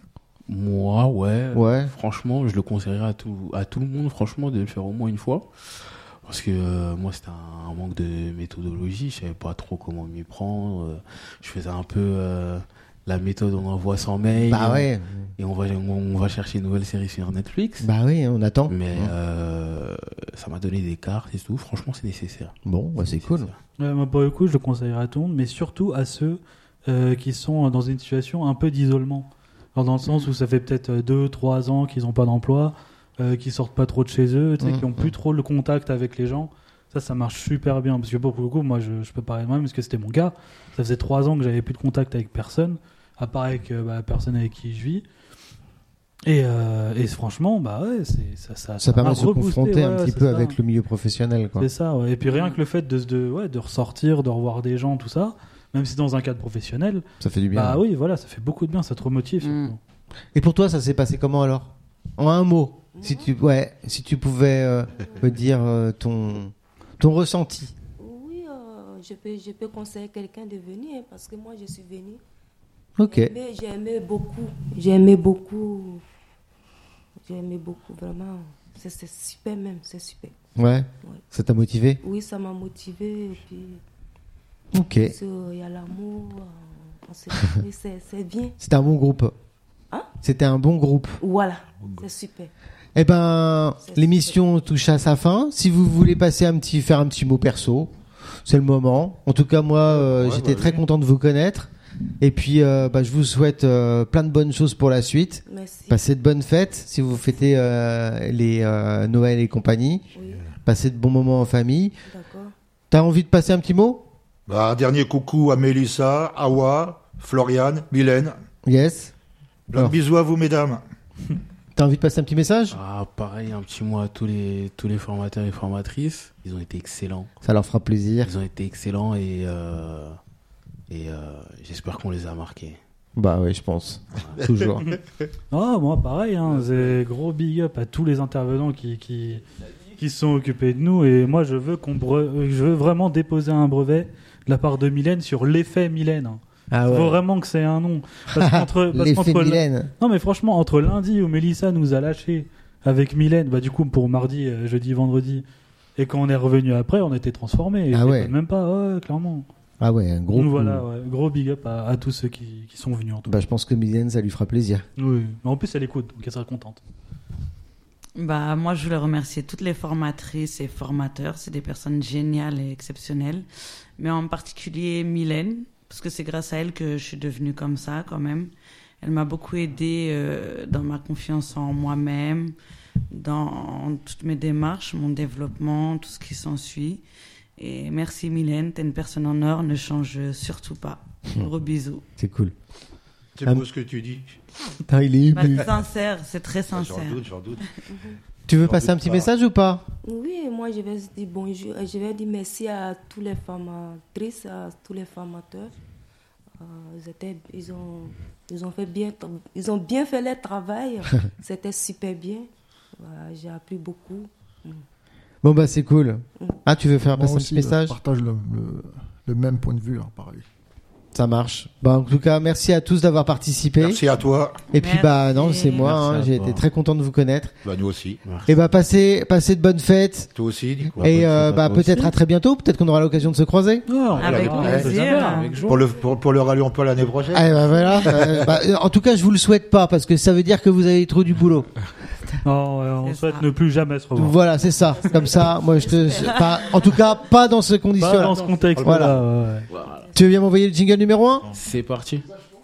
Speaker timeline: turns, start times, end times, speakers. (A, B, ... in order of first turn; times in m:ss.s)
0:00.5-0:17.9 A
0:01.5-0:01.9 B
0:14.4-0:15.3 B
0:17.8-0:19.1 B
0:18.7-0:23.6 A
0:22.6-0:23.5 B
0:23.8-0:45.0 C
0:34.6-0:35.1 B
0:46.2-0:50.6 C
0:48.8-0:51.7 B
0:51.6-0:59.8 C
0:52.2-0:52.6 D
0:57.2-0:57.8 B
0:59.4-0:59.7 D
1:00.3-1:07.7 B
1:03.0-1:03.3 E
1:05.0-1:05.2 E
1:08.0-1:12.2 E
1:13.0-1:13.3 B
1:13.0-1:16.0 E
1:17.2-1:20.3 E
1:20.6-1:22.0 B
1:22.0-1:23.8 E
1:24.7-1:25.1 B
1:25.0-1:28.5 E
1:28.6-1:29.3 B
1:30.2-1:31.2 B
1:31.2-1:32.5 E
1:32.9-1:37.9 B
1:33.8-1:34.3 E
1:38.4-1:50.0 B
1:40.0-1:40.8 A
1:45.5-1:46.0 E
1:50.1-1:50.4 E
1:50.6-1:51.9 B
1:52.1-1:52.5 E
1:52.9-1:54.1 B
1:54.5-1:58.3 F
1:58.6-1:59.1 B
1:59.7-2:00.8 F
2:01.7-2:02.8 B
2:02.7-2:07.3 A
2:07.4-2:08.3 B
2:08.2-2:10.2 A
2:10.9-2:12.8 A
2:13.2-2:14.9 B
2:15.5-2:19.4 C
2:20.0-2:35.4 C
2:26.7-2:27.2 B
2:28.3-2:29.9 B
2:36.0-2:39.5 C
2:37.9-2:38.3 B
2:39.8-2:40.8 B
2:40.3-2:43.3 C
2:43.2-2:44.8 B
2:45.0-2:46.8 C
2:48.2-2:53.4 D
2:54.0-3:02.6 D
3:03.1-3:07.0 D
3:07.6-3:12.0 D
3:12.2-3:12.5 B
3:13.4-3:14.4 F
3:14.9-3:15.7 B
3:15.3-3:17.2 D
3:16.7-3:17.6 F
3:17.9-3:18.2 E
3:18.5-3:19.8 B
3:18.6-3:19.3 F
3:20.0-3:25.7 E
3:26.6-3:34.8 E
3:35.4-3:38.0 B
3:37.1-3:40.4 G
3:41.1-3:44.0 B
3:43.8-3:44.7 F
3:44.7-3:45.9 D
3:44.7-3:47.5 B
3:45.8-3:46.6 A
3:47.6-3:48.2 F
3:48.2-3:48.5 A
3:48.4-3:50.3 B
3:50.3-3:51.1 F
3:50.9-3:52.1 A
3:51.0-3:53.8 B
3:53.9-3:55.8 C
3:54.2-3:54.9 F
3:54.2-3:55.8 A
3:54.2-3:55.6 D
3:55.6-3:58.5 F
3:57.3-4:01.7 B
4:02.4-4:04.4 C
4:03.0-4:03.4 D
4:04.1-4:09.2 B
4:04.6-4:07.1 E
4:08.0-4:09.7 C
4:08.2-4:08.7 A
4:09.7-4:10.1 A
4:09.8-4:10.2 E
4:10.1-4:11.5 B
4:11.5-4:12.3 A